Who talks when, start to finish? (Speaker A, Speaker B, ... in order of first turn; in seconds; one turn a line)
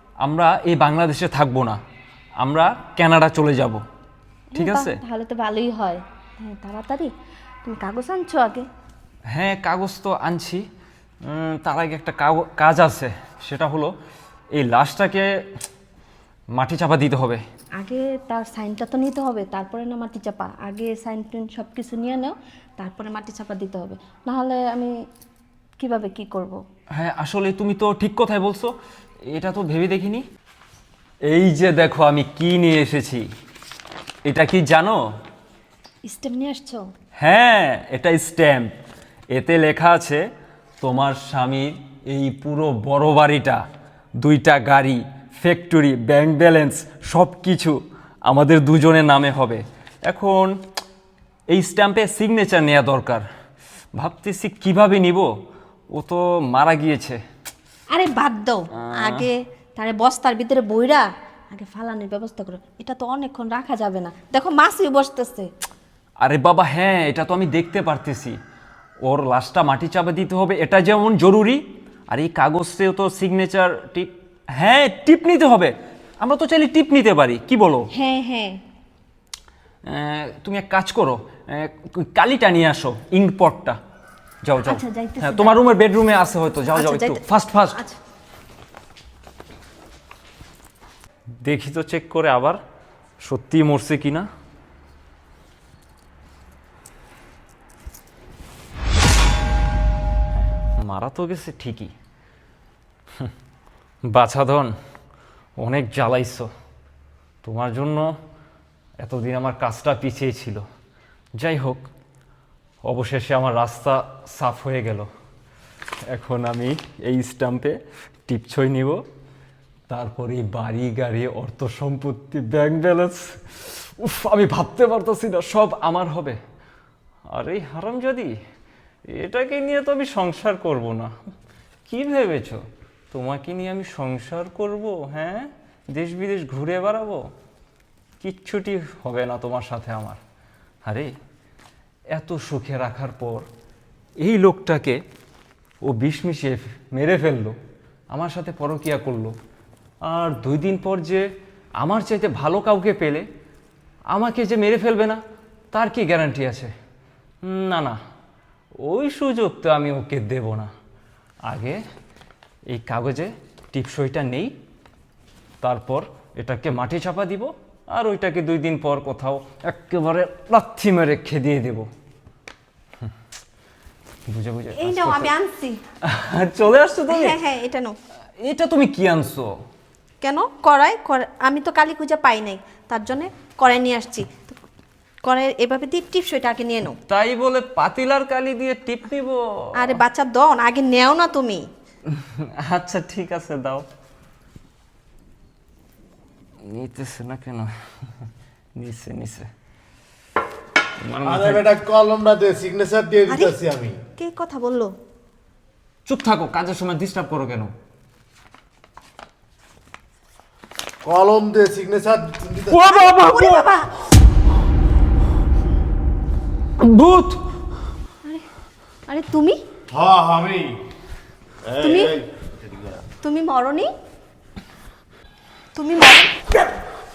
Speaker A: 0.2-1.8
Speaker A: 2.4-3.8
Speaker B: 4.5-7.1
Speaker A: 4.5-5.0
Speaker B: 7.6-8.7
Speaker A: 9.3-10.6
Speaker A: 11.2-13.9
Speaker A: 14.6-15.3
Speaker A: 16.6-17.4
Speaker B: 17.8-24.9
Speaker B: 25.8-26.6
Speaker A: 26.9-28.7
Speaker A: 29.3-30.2
Speaker A: 31.3-33.3
Speaker A: 34.2-35.0
Speaker B: 36.0-36.9
Speaker A: 37.1-38.7
Speaker A: 39.3-40.2
Speaker A: 40.8-43.6
Speaker A: 44.2-50.5
Speaker A: 51.5-53.2
Speaker A: 54.0-55.3
Speaker A: 55.9-57.2
Speaker B: 57.9-65.5
Speaker A: 58.8-59.3
Speaker A: 66.2-68.4
Speaker A: 69.0-77.9
Speaker B: 77.9-78.6
Speaker A: 79.8-83.8
Speaker A: 84.4-87.8
Speaker B: 84.6-85.6
Speaker B: 86.7-88.0
Speaker A: 91.4-92.6
Speaker A: 93.2-94.3
Speaker A: 100.3-101.9
Speaker A: 104.1-104.7
Speaker A: 105.6-106.5
Speaker A: 107.4-108.1
Speaker A: 109.0-110.6
Speaker A: 111.4-111.9
Speaker A: 112.8-115.1
Speaker A: 116.1-119.0
Speaker A: 119.9-126.4
Speaker A: 127.3-128.3
Speaker A: 129.1-131.1
Speaker A: 131.9-132.6
Speaker A: 133.1-137.3
Speaker A: 138.2-140.2
Speaker A: 140.8-141.1
Speaker A: 142.1-143.4
Speaker A: 144.2-145.0
Speaker A: 145.8-147.6
Speaker A: 148.1-149.3
Speaker A: 150.1-151.2
Speaker A: 151.8-153.2
Speaker A: 154.1-155.2
Speaker A: 155.7-156.7
Speaker A: 157.4-158.0
Speaker A: 158.8-160.7
Speaker A: 161.5-161.8
Speaker A: 162.7-164.5
Speaker A: 165.6-171.9
Speaker A: 174.2-175.3
Speaker B: 174.8-175.8
Speaker A: 176.1-177.4
Speaker B: 177.1-177.9
Speaker A: 178.4-179.5
Speaker B: 180.2-184.6
Speaker B: 185.2-187.0
Speaker A: 187.1-190.0
Speaker B: 189.8-191.6
Speaker A: 192.1-193.8
Speaker A: 196.7-199.5
Speaker A: 201.0-201.7
Speaker C: 201.2-203.9
Speaker B: 203.3-203.5
Speaker B: 204.2-204.9
Speaker A: 206.1-207.7
Speaker C: 211.0-213.0
Speaker A: 212.7-213.6
Speaker B: 212.8-213.9
Speaker A: 216.8-217.4
Speaker B: 219.1-219.6
Speaker C: 219.9-220.8
Speaker C: 221.6-223.0
Speaker B: 221.8-222.2
Speaker B: 223.2-223.9
Speaker B: 225.7-226.3